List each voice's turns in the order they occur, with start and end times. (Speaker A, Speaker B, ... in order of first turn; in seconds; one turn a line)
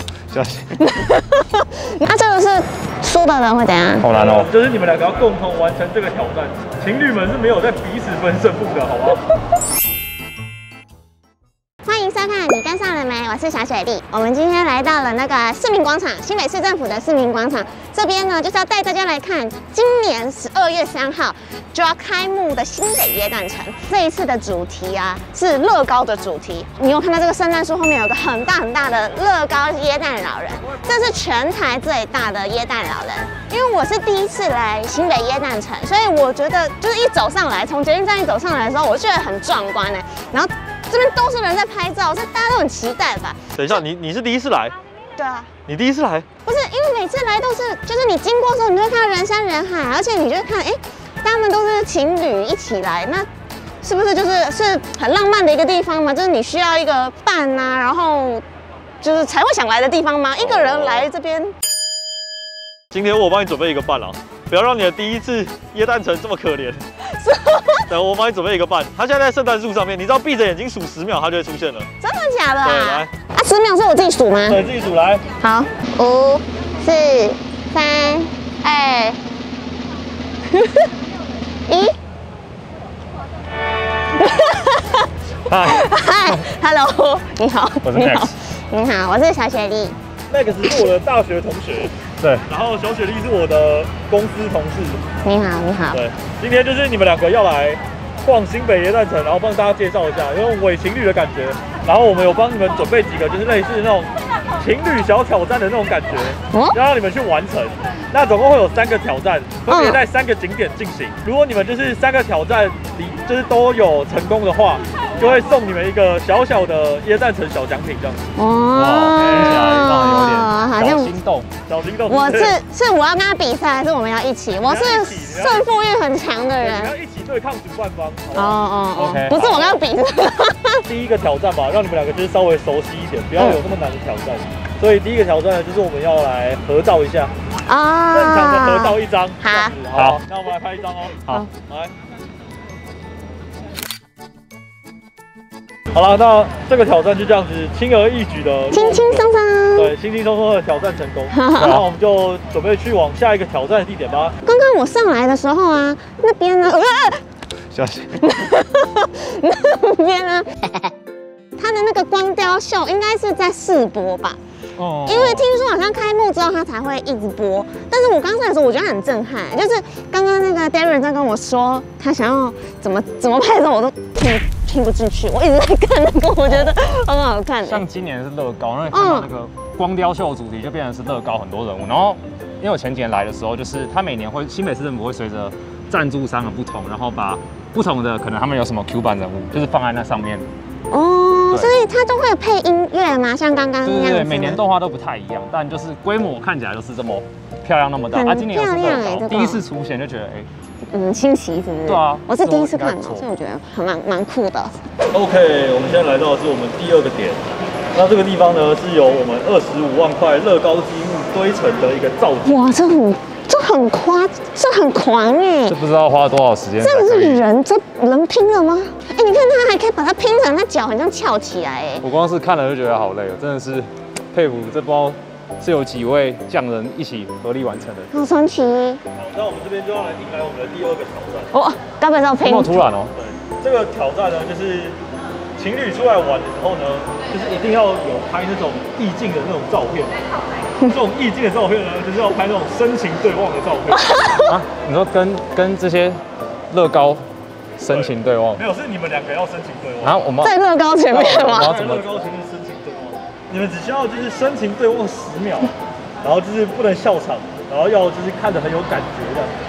Speaker A: 0.3-0.8
Speaker B: 0.8-4.1
Speaker A: 4.0-4.5
Speaker C: 4.1-9.2
Speaker B: 11.8-43.5
Speaker C: 43.5-44.8
Speaker B: 45.2-45.5
Speaker C: 45.7-46.3
Speaker B: 46.5-53.3
Speaker B: 53.8-58.4
Speaker B: 59.0-61.5
Speaker C: 60.4-61.1
Speaker C: 62.9-66.8
Speaker B: 67.1-67.9
Speaker C: 67.9-71.9
Speaker B: 72.0-74.6
Speaker C: 72.6-73.1
Speaker C: 74.5-75.2
Speaker B: 75.4-79.2
Speaker B: 80.5-80.9
Speaker B: 81.7-81.9
Speaker B: 84.2-85.1
Speaker A: 85.5-86.4
Speaker B: 85.6-90.0
Speaker A: 87.8-88.3
Speaker C: 90.3-91.9
Speaker A: 92.2-92.4
Speaker C: 92.5-95.0
Speaker B: 95.2-96.0
Speaker C: 95.9-118.2
Speaker B: 109.7-110.0
Speaker B: 118.4-121.1
Speaker A: 118.7-121.5
Speaker C: 119.3-119.6
Speaker C: 121.7-122.6
Speaker B: 122.1-126.9
Speaker C: 124.6-125.7
Speaker C: 126.6-128.6
Speaker B: 128.3-130.8
Speaker A: 128.9-129.8
Speaker C: 130.8-137.3
Speaker B: 137.7-139.8
Speaker C: 138.1-141.9
Speaker A: 139.9-140.2
Speaker C: 145.9-154.3
Speaker B: 148.7-149.9
Speaker B: 151.3-151.8
Speaker B: 154.4-157.2
Speaker A: 157.7-158.3
Speaker B: 158.2-160.4
Speaker B: 161.6-164.4
Speaker A: 164.8-165.5
Speaker B: 165.1-177.8
Speaker A: 176.4-176.8
Speaker A: 177.6-190.5
Speaker B: 178.9-179.3
Speaker B: 190.9-194.6
Speaker A: 193.8-200.5
Speaker B: 198.1-199.6
Speaker B: 200.9-204.8
Speaker A: 201.9-203.2
Speaker C: 205.1-212.6
Speaker B: 212.4-215.8
Speaker A: 215.7-217.4
Speaker B: 216.8-222.1
Speaker A: 222.0-228.1
Speaker B: 228.1-229.0
Speaker C: 229.2-231.5
Speaker B: 231.5-232.9
Speaker A: 232.4-233.1
Speaker C: 233.1-235.0
Speaker C: 235.6-240.1
Speaker C: 240.8-244.2
Speaker B: 243.9-244.6
Speaker A: 244.4-246.2
Speaker A: 246.7-247.2
Speaker A: 247.8-248.6
Speaker C: 247.9-250.2
Speaker A: 250.0-250.6
Speaker B: 250.4-251.7
Speaker C: 251.1-259.6
Speaker A: 251.1-252.2